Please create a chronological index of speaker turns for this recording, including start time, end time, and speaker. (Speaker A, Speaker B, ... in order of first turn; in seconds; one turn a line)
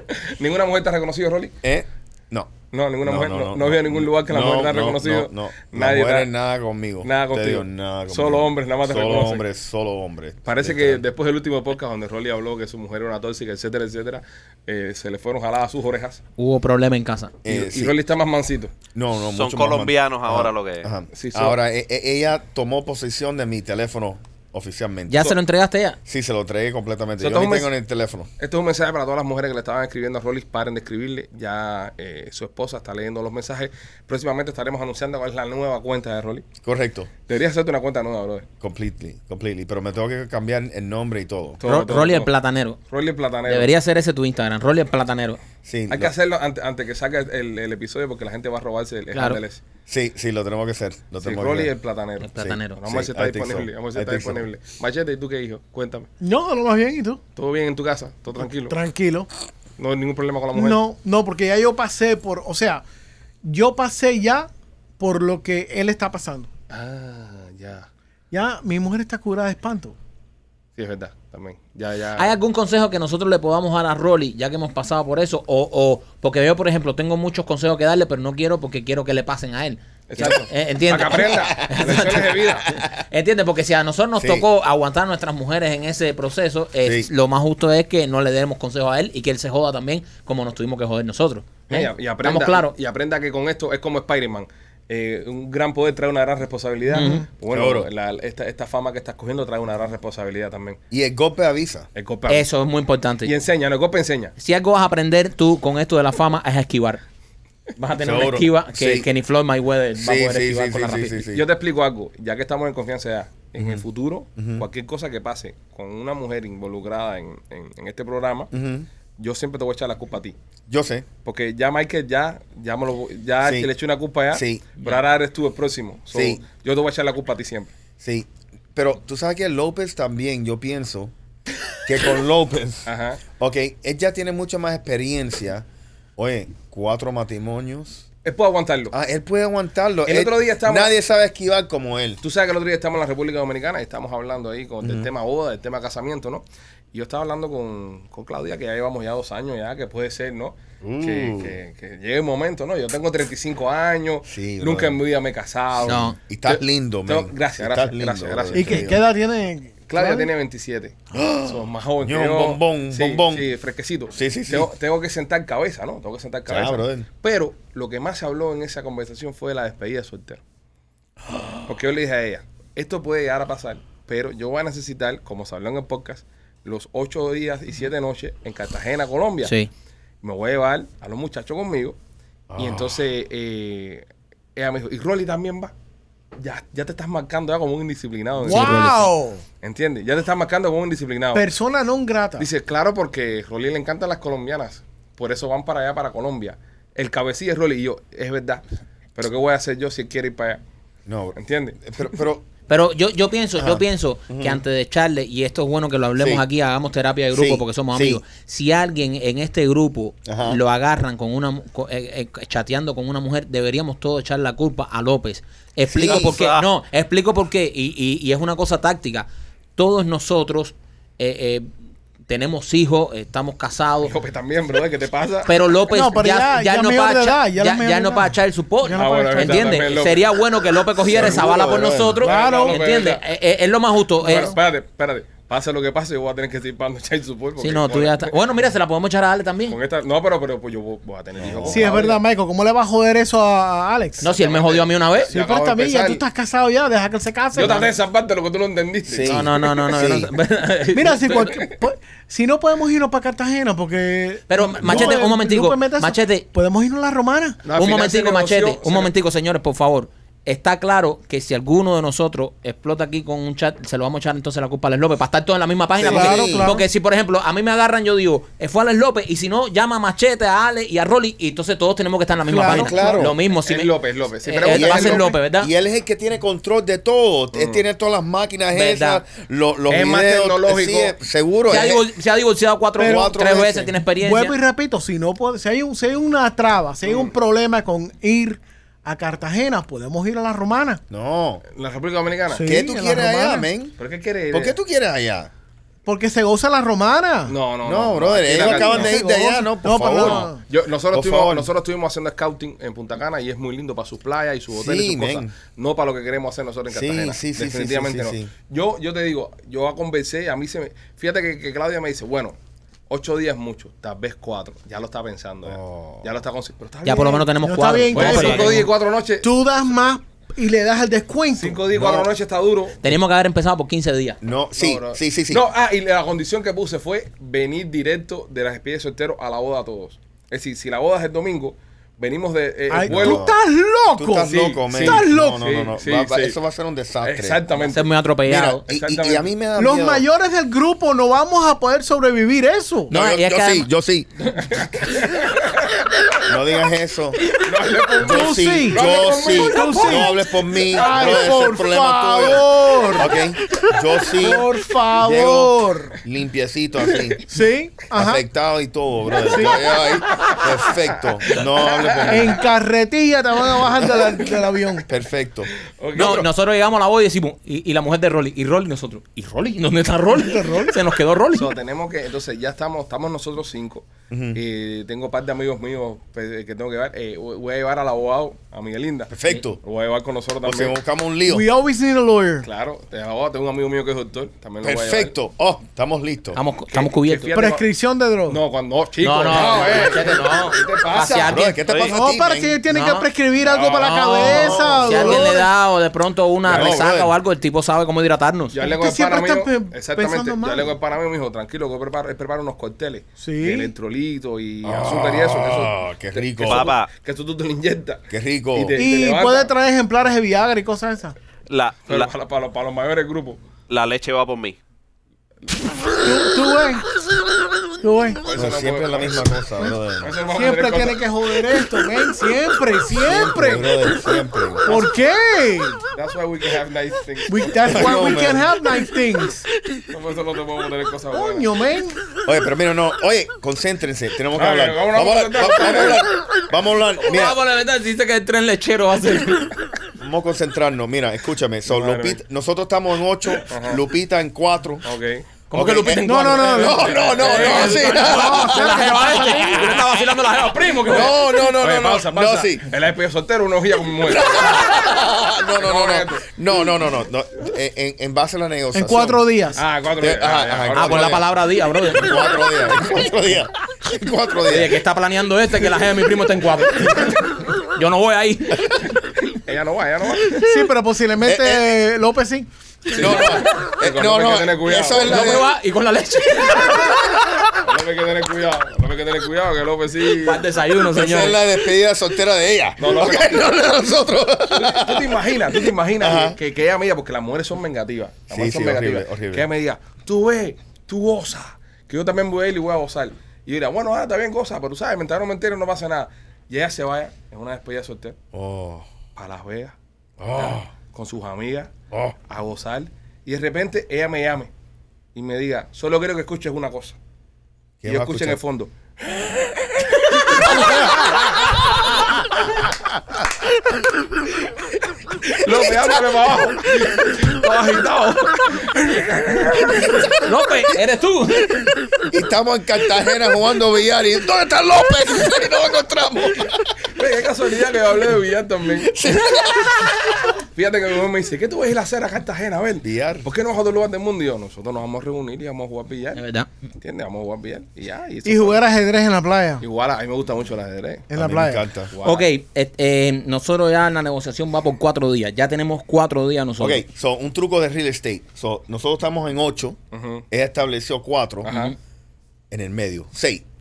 Speaker A: 0.1-1.5
Speaker B: 1.6-11.0
Speaker A: 2.7-6.3
Speaker A: 7.0-9.4
Speaker A: 10.4-16.2
Speaker C: 16.4-17.3
Speaker B: 17.4-17.9
Speaker A: 17.4-18.7
Speaker B: 18.9-25.3
Speaker D: 19.3-20.9
Speaker A: 21.1-21.6
Speaker C: 25.1-26.0
Speaker B: 26.1-28.3
Speaker A: 27.2-27.7
Speaker A: 28.4-36.5
Speaker B: 36.6-37.1
Speaker A: 37.3-38.5
Speaker B: 38.6-41.6
Speaker A: 41.6-42.3
Speaker C: 41.6-42.8
Speaker A: 42.9-43.7
Speaker C: 43.5-45.4
Speaker B: 45.6-46.1
Speaker A: 45.9-49.6
Speaker C: 49.1-49.4
Speaker B: 49.9-51.7
Speaker A: 51.2-56.1
Speaker C: 52.2-52.8
Speaker B: 52.4-54.4
Speaker E: 56.2-57.2
Speaker A: 57.4-58.8
Speaker E: 58.4-59.3
Speaker A: 59.8-60.8
Speaker E: 60.5-62.8
Speaker E: 63.4-64.5
Speaker E: 65.0-66.5
Speaker A: 66.7-67.9
Speaker E: 68.3-70.0
Speaker A: 70.8-72.3
Speaker C: 72.2-82.5
Speaker A: 80.1-82.7
Speaker C: 83.0-92.7
Speaker B: 84.2-84.5
Speaker B: 86.8-87.1
Speaker A: 91.7-100.8
Speaker C: 96.9-97.2
Speaker B: 97.5-97.9
Speaker B: 100.9-101.9
Speaker A: 101.9-102.5
Speaker C: 102.3-103.3
Speaker A: 103.2-104.3
Speaker C: 104.4-107.0
Speaker C: 107.8-111.2
Speaker B: 108.0-109.1
Speaker B: 110.0-111.5
Speaker A: 111.3-118.5
Speaker B: 113.6-113.8
Speaker B: 114.4-114.7
Speaker B: 118.5-118.9
Speaker A: 119.2-120.3
Speaker B: 120.7-121.0
Speaker A: 121.2-127.7
Speaker B: 123.4-123.7
Speaker B: 124.3-124.7
Speaker B: 126.1-126.4
Speaker B: 128.0-131.1
Speaker B: 131.8-135.7
Speaker A: 132.8-133.2
Speaker B: 136.2-138.0
Speaker A: 138.2-138.9
Speaker B: 138.9-142.2
Speaker A: 140.1-140.9
Speaker A: 142.2-158.9
Speaker B: 144.8-145.1
Speaker B: 150.8-151.6
Speaker B: 154.2-155.0
Speaker B: 155.8-159.0
Speaker C: 155.8-156.2
Speaker E: 158.5-160.3
Speaker A: 159.9-170.4
Speaker B: 161.1-163.5
Speaker B: 164.1-164.7
Speaker B: 166.5-167.1
Speaker B: 171.3-171.6
Speaker A: 171.6-179.5
Speaker C: 179.4-179.7
Speaker A: 180.2-182.0
Speaker B: 182.5-183.0
Speaker A: 182.6-185.7
Speaker A: 186.4-189.1
Speaker E: 188.4-189.4
Speaker C: 188.4-189.1
Speaker A: 189.6-191.5
Speaker E: 191.3-192.5
Speaker A: 192.4-198.6
Speaker A: 199.1-200.6
Speaker B: 201.1-202.4
Speaker A: 201.3-201.8
Speaker C: 202.7-221.7
Speaker B: 203.6-204.6
Speaker B: 206.2-206.4
Speaker B: 207.3-208.2
Speaker B: 210.2-210.6
Speaker B: 215.9-216.3
Speaker D: 216.1-216.7
Speaker C: 222.3-224.1
Speaker A: 224.0-225.5
Speaker C: 225.4-234.5
Speaker E: 225.9-229.8
Speaker A: 228.9-230.3
Speaker A: 231.0-233.2
Speaker B: 231.2-232.2
Speaker E: 232.2-232.8
Speaker A: 234.2-238.3
Speaker C: 237.6-239.8
Speaker A: 239.7-242.2
Speaker B: 241.4-242.0
Speaker E: 241.7-244.3
Speaker C: 244.2-245.3
Speaker A: 244.3-246.2
Speaker E: 245.3-247.9
Speaker A: 247.5-249.7
Speaker C: 247.6-247.9
Speaker B: 249.0-250.3
Speaker C: 249.2-251.5
Speaker E: 250.9-257.6
Speaker A: 251.3-251.7
Speaker C: 254.5-256.4
Speaker B: 254.8-255.2
Speaker A: 257.6-259.1
Speaker C: 257.7-273.9
Speaker E: 266.0-266.8
Speaker B: 266.0-266.7
Speaker A: 266.1-266.5
Speaker E: 272.4-273.2
Speaker B: 272.6-273.4
Speaker A: 273.6-275.3
Speaker C: 274.4-275.7
Speaker B: 274.7-282.1
Speaker A: 277.5-277.8
Speaker C: 278.7-279.2
Speaker A: 279.9-281.1
Speaker C: 281.7-284.6
Speaker E: 283.0-283.4
Speaker B: 283.0-283.9
Speaker E: 284.2-291.0
Speaker A: 287.0-287.3
Speaker B: 291.1-291.6
Speaker A: 291.7-292.7
Speaker E: 292.5-293.7
Speaker B: 292.6-294.0
Speaker A: 294.0-294.8
Speaker B: 294.5-295.5
Speaker E: 296.1-297.6
Speaker A: 297.4-299.2
Speaker B: 297.8-300.5
Speaker E: 298.5-300.6
Speaker A: 300.1-312.6
Speaker B: 301.1-301.7
Speaker B: 304.7-305.5
Speaker B: 306.9-308.5
Speaker A: 313.1-317.4
Speaker B: 315.6-316.3
Speaker C: 317.0-318.9
Speaker E: 317.1-321.8
Speaker A: 318.1-319.5
Speaker A: 321.5-323.1
Speaker B: 321.9-322.3
Speaker C: 323.0-324.4
Speaker B: 324.4-325.6
Speaker A: 324.8-333.5
Speaker E: 332.9-335.6
Speaker B: 333.0-333.6
Speaker B: 334.1-337.6
Speaker A: 334.5-336.6
Speaker A: 337.2-338.1
Speaker C: 337.8-338.8
Speaker B: 338.4-340.2
Speaker A: 338.9-339.5
Speaker E: 339.8-343.1
Speaker C: 343.1-343.9
Speaker B: 343.1-344.3
Speaker A: 344.6-345.7
Speaker B: 346.4-347.4
Speaker A: 347.5-350.2
Speaker E: 348.2-353.3
Speaker B: 348.2-357.4
Speaker E: 354.3-356.2
Speaker E: 357.5-358.4
Speaker B: 358.1-362.6
Speaker E: 359.4-359.9
Speaker A: 360.0-362.6
Speaker E: 362.2-365.1
Speaker B: 363.8-364.5
Speaker B: 365.1-366.5
Speaker A: 365.9-366.5
Speaker C: 366.1-371.7
Speaker E: 370.3-370.9
Speaker A: 371.5-381.0
Speaker B: 374.3-374.6
Speaker B: 379.3-379.8
Speaker B: 380.6-381.7
Speaker E: 381.4-382.7
Speaker A: 382.6-385.3
Speaker B: 384.8-386.6
Speaker C: 386.5-387.6
Speaker A: 386.9-387.9
Speaker E: 387.5-388.6
Speaker A: 388.5-391.6
Speaker C: 389.2-391.8
Speaker B: 391.4-392.8
Speaker D: 391.9-392.2
Speaker E: 392.1-395.7
Speaker C: 392.9-393.3
Speaker A: 393.6-394.3
Speaker C: 394.0-398.8
Speaker B: 394.4-395.5
Speaker B: 396.6-397.3
Speaker A: 396.7-397.0
Speaker A: 398.7-408.2
Speaker E: 398.8-400.9
Speaker E: 403.4-403.9
Speaker B: 404.8-406.9
Speaker D: 406.6-407.1
Speaker B: 408.3-409.0
Speaker A: 408.7-409.7
Speaker E: 408.9-411.4
Speaker D: 411.7-412.3
Speaker A: 412.1-413.6
Speaker D: 413.9-414.8
Speaker E: 416.2-417.0
Speaker E: 418.0-418.4
Speaker A: 418.4-419.5
Speaker B: 418.5-420.4
Speaker A: 420.2-421.2
Speaker E: 420.5-423.9
Speaker B: 423.1-425.0
Speaker E: 424.8-426.0
Speaker A: 424.9-425.2
Speaker A: 426.1-428.2
Speaker E: 427.5-429.6
Speaker B: 427.8-428.7
Speaker A: 430.1-431.8
Speaker E: 431.3-432.2
Speaker B: 432.4-437.6
Speaker A: 434.5-436.3
Speaker C: 437.2-439.7
Speaker B: 440.2-445.1
Speaker A: 441.9-442.4
Speaker A: 443.7-444.0
Speaker A: 445.0-445.4
Speaker C: 445.7-451.3
Speaker B: 445.7-450.0
Speaker E: 446.2-447.1
Speaker A: 447.0-448.3
Speaker E: 447.6-450.0
Speaker A: 451.0-455.0
Speaker B: 451.1-452.9
Speaker B: 454.2-459.4
Speaker A: 455.8-456.5
Speaker E: 458.9-459.8
Speaker A: 459.7-461.4
Speaker B: 460.2-461.5
Speaker C: 460.9-462.4
Speaker B: 462.1-465.0
Speaker C: 464.7-469.0
Speaker A: 469.4-470.5
Speaker E: 470.6-472.7
Speaker B: 471.4-471.9
Speaker B: 473.1-475.7
Speaker A: 473.9-475.6
Speaker C: 475.2-477.1
Speaker A: 477.7-480.6
Speaker C: 480.4-481.6
Speaker B: 481.1-486.6
Speaker A: 483.0-483.6
Speaker A: 484.7-498.4
Speaker B: 488.5-489.7
Speaker B: 498.5-499.1
Speaker A: 499.4-499.9
Speaker B: 500.4-500.9
Speaker A: 500.5-501.9
Speaker B: 502.1-502.4
Speaker A: 502.5-504.7
Speaker A: 505.3-507.2
Speaker B: 508.0-508.6
Speaker A: 508.0-511.4
Speaker A: 515.4-520.2
Speaker C: 520.4-521.8
Speaker B: 522.3-526.9
Speaker A: 527.1-529.3
Speaker B: 529.0-530.1
Speaker A: 530.7-536.4
Speaker B: 533.0-533.5
Speaker C: 536.3-536.7
Speaker A: 537.0-538.8
Speaker E: 538.4-539.8
Speaker A: 539.8-541.3
Speaker E: 541.3-541.9
Speaker B: 541.3-542.1
Speaker A: 542.1-542.5
Speaker C: 542.2-547.0
Speaker B: 546.8-550.0
Speaker A: 550.1-550.4
Speaker B: 550.5-551.7
Speaker A: 551.6-551.9
Speaker C: 551.6-551.9
Speaker B: 552.7-553.6